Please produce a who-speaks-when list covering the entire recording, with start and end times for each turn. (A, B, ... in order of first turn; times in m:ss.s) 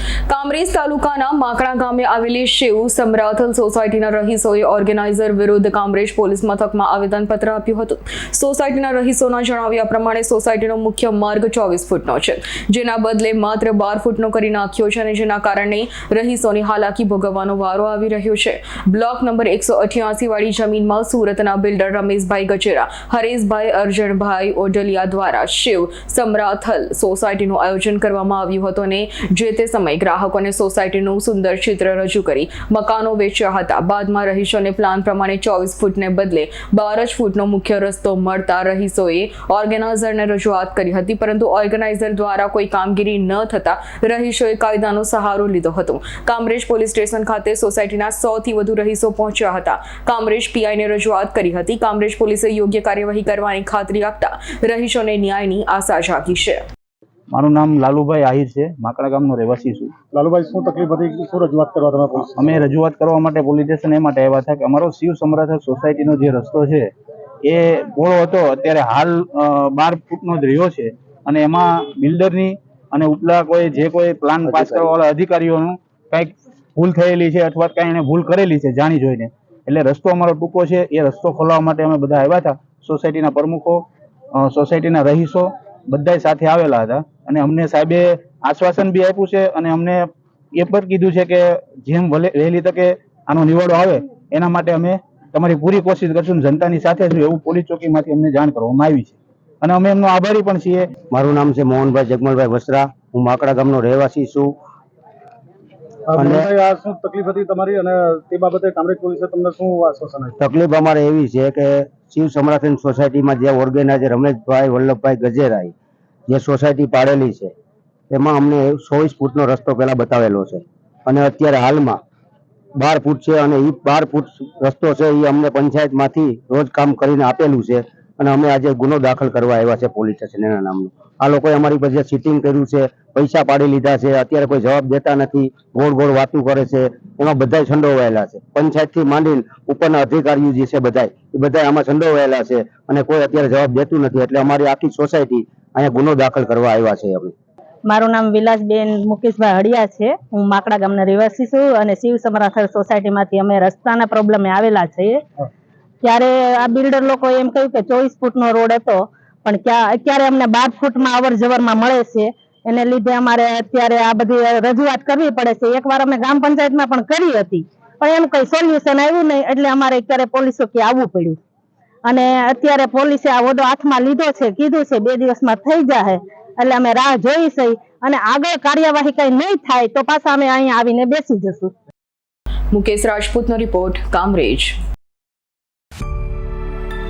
0:00.3-0:56.6 A
0:57.3-0:59.9 B
1:00.1-1:02.6 C
1:02.2-1:06.9 B
1:07.4-1:23.8 B
1:14.5-1:14.8 D
1:24.4-1:40.8 B
1:41.1-1:44.5 D
1:46.1-1:50.3 C
1:46.1-1:46.5 D
1:50.4-1:55.7 D
1:56.3-1:57.5 D
1:58.1-2:02.0 D
2:02.8-2:27.3 D
2:27.9-2:35.2 E
2:36.0-2:51.4 E
2:52.0-3:01.7 E
3:02.7-3:04.7 A